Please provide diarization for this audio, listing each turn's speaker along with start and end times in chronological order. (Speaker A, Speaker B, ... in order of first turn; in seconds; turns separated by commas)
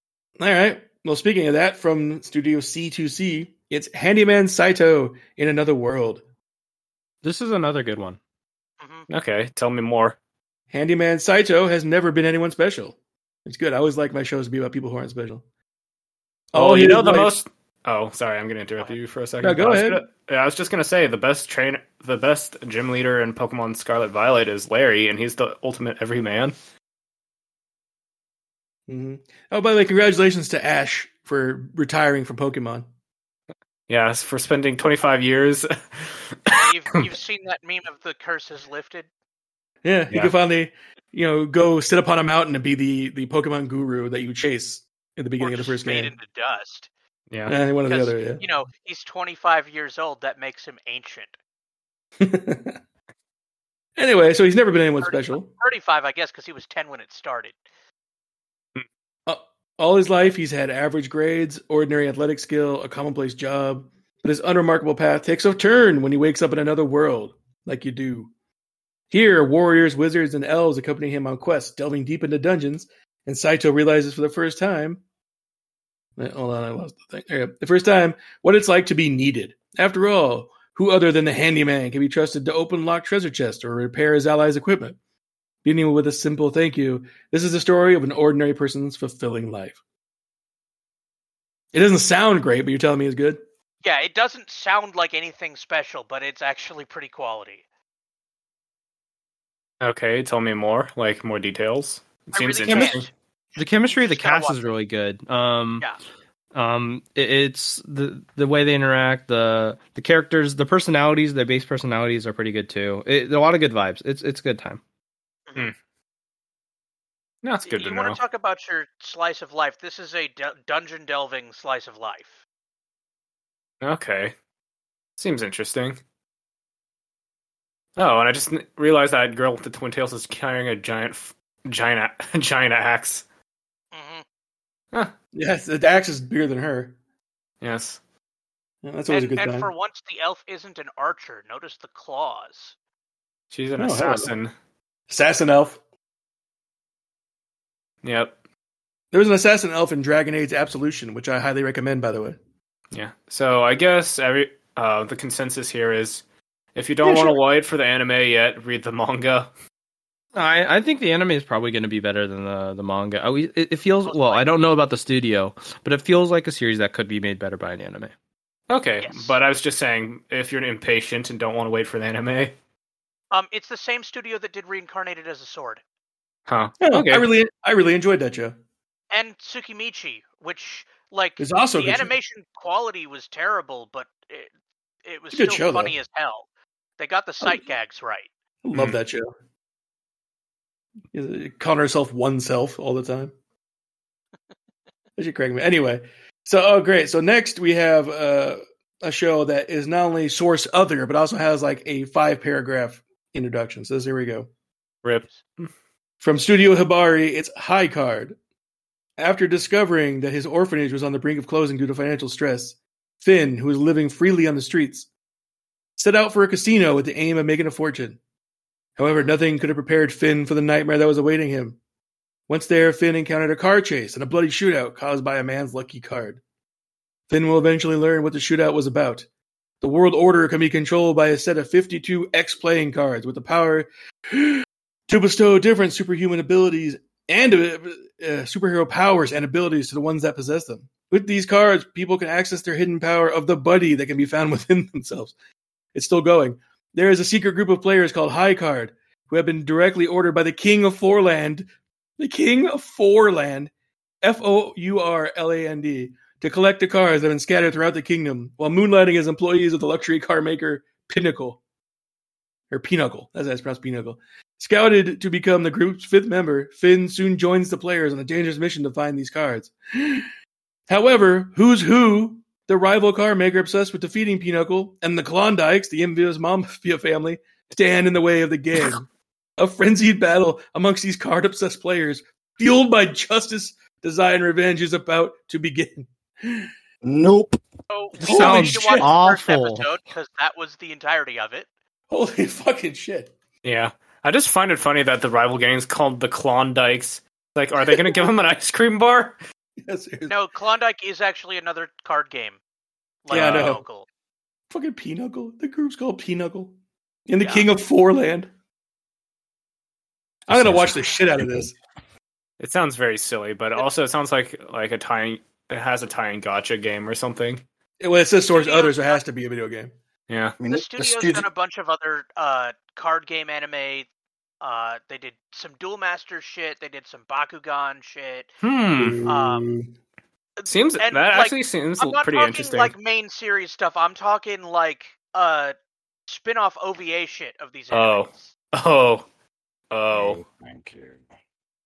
Speaker A: 0.4-6.2, Speaker B: 7.2-8.2, Speaker C: 8.8-9.1, Speaker D: 9.1-10.2, Speaker A: 10.7-12.9, Speaker A: 13.4-15.4, Speaker A: 16.5-17.3, Speaker D: 16.5-26.5, Speaker A: 19.4-20.0, Speaker A: 28.9-32.9, Speaker D: 33.9-36.7, Speaker C: 36.5-39.1, Speaker A: 39.8-46.1, Speaker C: 45.4-46.9, Speaker A: 47.5-48.4, Speaker C: 47.9-51.4, Speaker A: 52.2-52.8, Speaker A: 54.0-55.5, Speaker C: 55.0-57.6, Speaker A: 59.3-68.3, Speaker A: 69.1-75.0, Speaker A: 76.2-85.0, Speaker A: 85.6-89.8, Speaker A: 91.7-93.4, Speaker C: 93.8-97.6, Speaker D: 99.8-103.1, Speaker C: 102.3-104.6, Speaker B: 102.7-103.0, Speaker B: 103.5-105.9, Speaker B: 106.5-114.8, Speaker D: 117.4-118.2, Speaker C: 117.7-122.3, Speaker D: 123.8-124.3, Speaker D: 125.2-126.0, Speaker D: 128.0-133.2, Speaker C: 133.9-134.2, Speaker A: 135.3-136.9, Speaker D: 137.6-138.0, Speaker A: 138.8-139.7, Speaker C: 139.1-142.7, Speaker D: 143.5-144.5, Speaker A: 143.8-144.3, Speaker A: 145.1-145.8, Speaker D: 148.0-148.3, Speaker A: 149.1-152.4, Speaker D: 152.9-156.2, Speaker D: 156.7-159.5, Speaker A: 157.0-157.4, Speaker B: 160.3-168.1, Speaker C: 164.0-164.5, Speaker D: 168.7-172.5, Speaker C: 169.0-169.3, Speaker C: 173.3-175.8, Speaker D: 176.5-177.3, Speaker A: 176.8-178.6, Speaker C: 179.1-184.5, Speaker A: 181.4-182.1, Speaker C: 185.0-186.5, Speaker A: 185.3-185.9, Speaker C: 187.0-188.3, Speaker A: 188.6-189.3, Speaker D: 188.7-189.0, Speaker A: 191.1-193.3, Speaker A: 195.2-204.5, Speaker D: 205.0-205.7, Speaker A: 206.2-208.3, Speaker A: 209.2-215.1, Speaker A: 216.0-218.2, Speaker A: 219.0-221.8, Speaker A: 222.5-226.4, Speaker A: 227.3-229.2, Speaker A: 229.8-245.3, Speaker A: 245.9-251.7, Speaker A: 252.2-253.7, Speaker A: 254.2-261.6, Speaker A: 262.7-270.3, Speaker A: 270.9-279.0, Speaker A: 279.6-286.7, Speaker E: 287.0-287.6, Speaker C: 287.9-291.7, Speaker B: 288.2-289.9, Speaker A: 288.2-289.1, Speaker A: 292.1-293.3, Speaker D: 293.6-299.4, Speaker A: 297.8-298.2, Speaker A: 299.9-300.3, Speaker C: 300.3-302.6, Speaker C: 303.2-304.1, Speaker A: 303.3-303.8, Speaker D: 303.3-303.7, Speaker A: 304.7-306.7, Speaker A: 307.3-308.5, Speaker C: 307.4-307.7, Speaker A: 310.5-311.7, Speaker E: 310.5-311.6, Speaker D: 312.6-317.6, Speaker A: 318.0-319.9, Speaker C: 318.5-319.2, Speaker D: 320.3-320.6, Speaker E: 320.6-321.5, Speaker C: 320.7-324.1, Speaker C: 324.6-328.5, Speaker D: 328.6-329.2, Speaker A: 329.0-329.9, Speaker C: 329.2-329.7, Speaker C: 330.6-335.7, Speaker D: 330.6-332.9, Speaker C: 336.3-338.5, Speaker D: 337.9-339.2, Speaker D: 339.9-340.4, Speaker E: 340.1-341.2